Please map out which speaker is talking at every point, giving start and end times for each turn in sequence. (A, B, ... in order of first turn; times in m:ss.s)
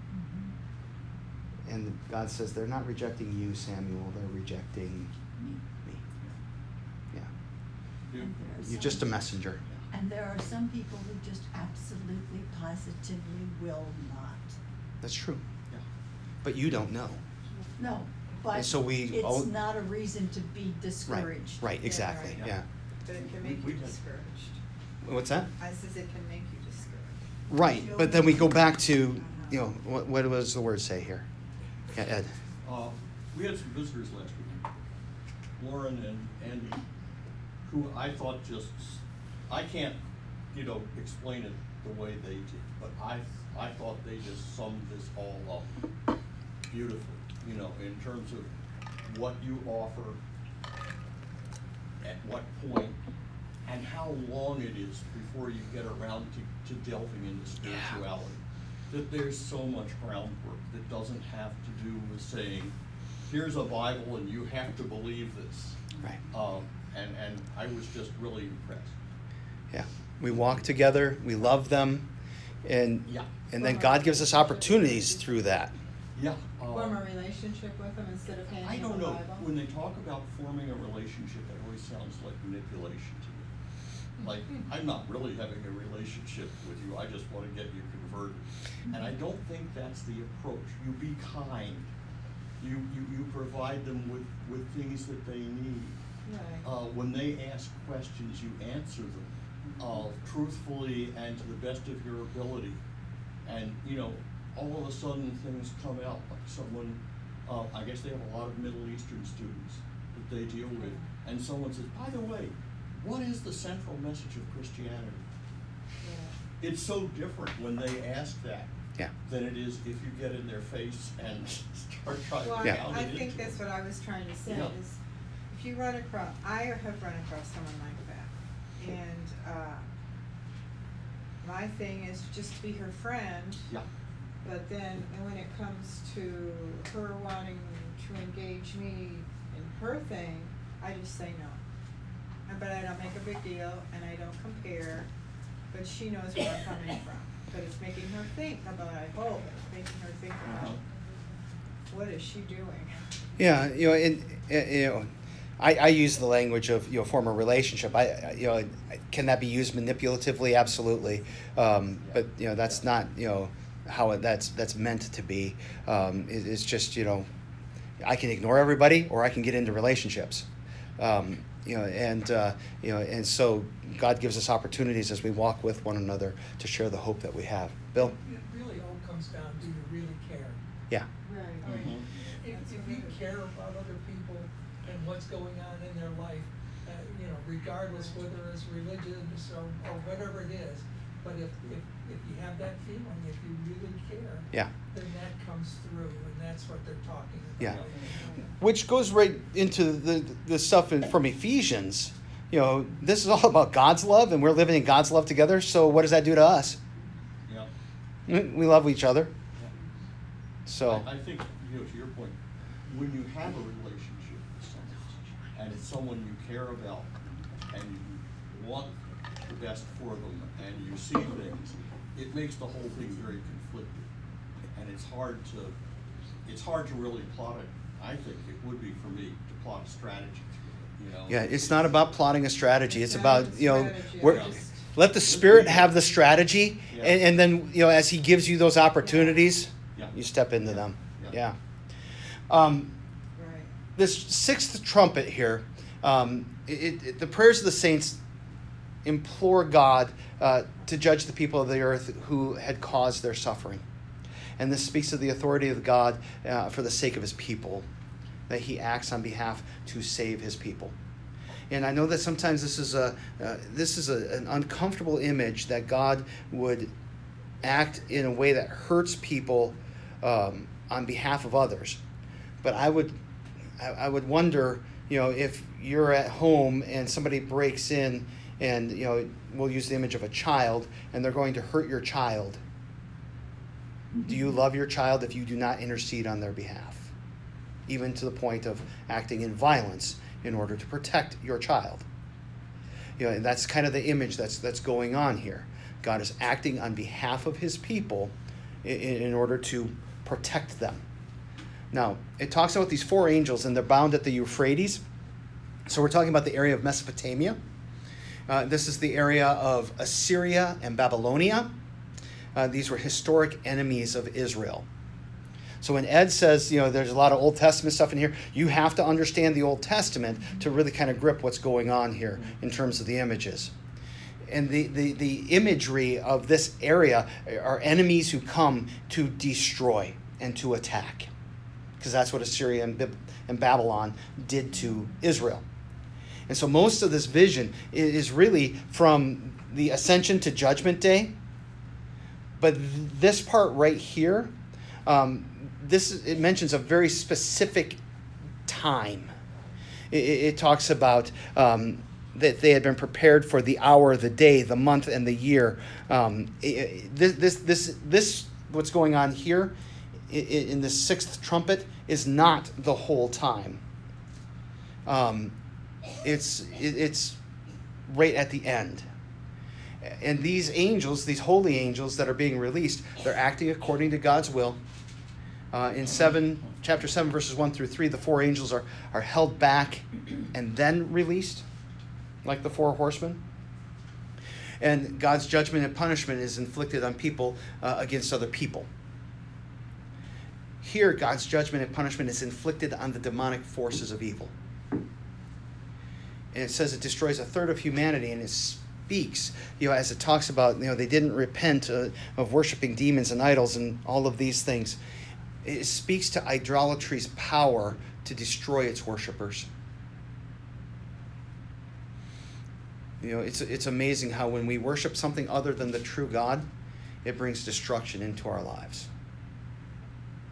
0:00.1-0:00.5 A
0:01.7-0:05.1 B
0:05.4-0:05.7 A
0:08.1-0:08.4 C
0:08.1-0:09.2 A
0:08.6-0:09.6 B
0:09.9-0:14.6 A
0:15.0-0:15.4 B
0:16.4-0:17.2 B
0:17.8-0:21.7 A
0:18.5-0:19.5 B
0:21.1-0:22.6 B
0:21.8-0:22.5 D
0:23.0-0:24.6 D
0:23.1-0:24.0 C
0:25.0-0:25.5 B
0:25.6-0:27.2 D
0:27.5-0:31.3 B
0:27.6-0:28.6 A
0:29.2-0:29.6 D
0:31.9-0:32.3 B
0:32.6-0:34.6 C
0:35.6-0:36.8 C
0:37.6-0:40.0 C
0:40.5-0:45.7 C
0:46.7-0:48.5 C
0:49.0-0:50.2 C
0:52.0-0:53.0 C
0:53.7-1:02.7 C
1:03.3-1:09.0 C
1:09.7-1:12.1 B
1:12.6-1:15.7 B
1:13.6-1:15.3 D
1:16.1-1:17.1 C
1:16.7-1:19.5 D
1:18.6-1:23.5 C
1:24.2-1:31.9 C
1:32.6-1:36.0 C
1:36.2-1:36.7 D
1:36.6-1:42.8 C
1:43.4-1:55.2 C
1:50.8-1:51.1 D
1:56.0-1:56.4 D
1:56.6-1:58.7 C
1:59.3-2:03.6 C
2:02.4-2:05.0 D
2:04.4-2:04.8 C
2:05.5-2:09.8 D
2:11.4-2:13.7 D
2:14.4-2:21.6 D
2:22.4-2:25.1 D
2:25.7-2:30.8 D
2:30.5-2:30.8 C
2:31.9-2:33.0 D
2:33.4-2:47.3 B
2:48.0-2:50.4 B
2:51.0-2:58.1 B
2:58.0-3:00.6 E
3:01.2-3:03.4 D
3:01.6-3:02.0 C
3:01.7-3:18.5 E
3:17.6-3:17.8 B
3:17.6-3:17.9 C
3:18.6-3:26.8 B
3:28.3-3:29.3 B
3:30.7-3:31.1 B
3:30.9-3:32.4 C
3:32.9-3:37.1 C
3:37.7-3:38.9 C
3:39.4-3:44.1 C
3:44.7-3:45.8 C
3:46.4-3:51.9 C
3:51.3-4:01.6 B
3:52.9-3:54.8 D
3:54.3-3:54.6 C
3:55.2-3:55.9 C
3:56.9-3:57.2 C
3:59.0-3:59.5 D
4:00.0-4:01.4 C
4:02.5-4:03.0 B
4:03.4-4:03.7 D
4:04.0-4:08.2 B
4:09.0-4:13.8 B
4:14.6-4:17.8 B
4:18.5-4:20.9 B
4:21.7-4:26.9 B
4:27.6-4:32.0 B
4:32.6-4:33.2 B
4:33.8-4:42.6 B
4:44.1-4:44.6 A
4:44.3-4:47.1 B
4:47.9-4:52.0 B
4:53.2-4:58.3 B
4:58.8-5:01.0 B
5:01.9-5:05.0 B
5:05.9-5:07.6 B
5:08.5-5:11.7 B
5:12.6-5:14.9 B
5:15.8-5:23.7 B
5:24.5-5:31.3 B
5:32.0-5:35.6 B
5:36.5-5:41.3 B
5:42.6-5:44.5 B
5:45.0-5:48.0 B
5:48.7-5:49.3 B
5:50.1-5:59.7 B
6:00.3-6:03.8 B
6:05.0-6:05.6 B
6:06.2-6:07.4 B
6:08.1-6:09.0 B
6:10.0-6:14.8 B
6:15.7-6:21.6 B
6:22.4-6:23.4 B
6:24.8-6:28.9 B
6:30.8-6:34.5 B
6:36.5-6:45.0 B
6:45.6-6:49.7 B
6:53.2-6:56.7 B
6:57.2-6:59.1 B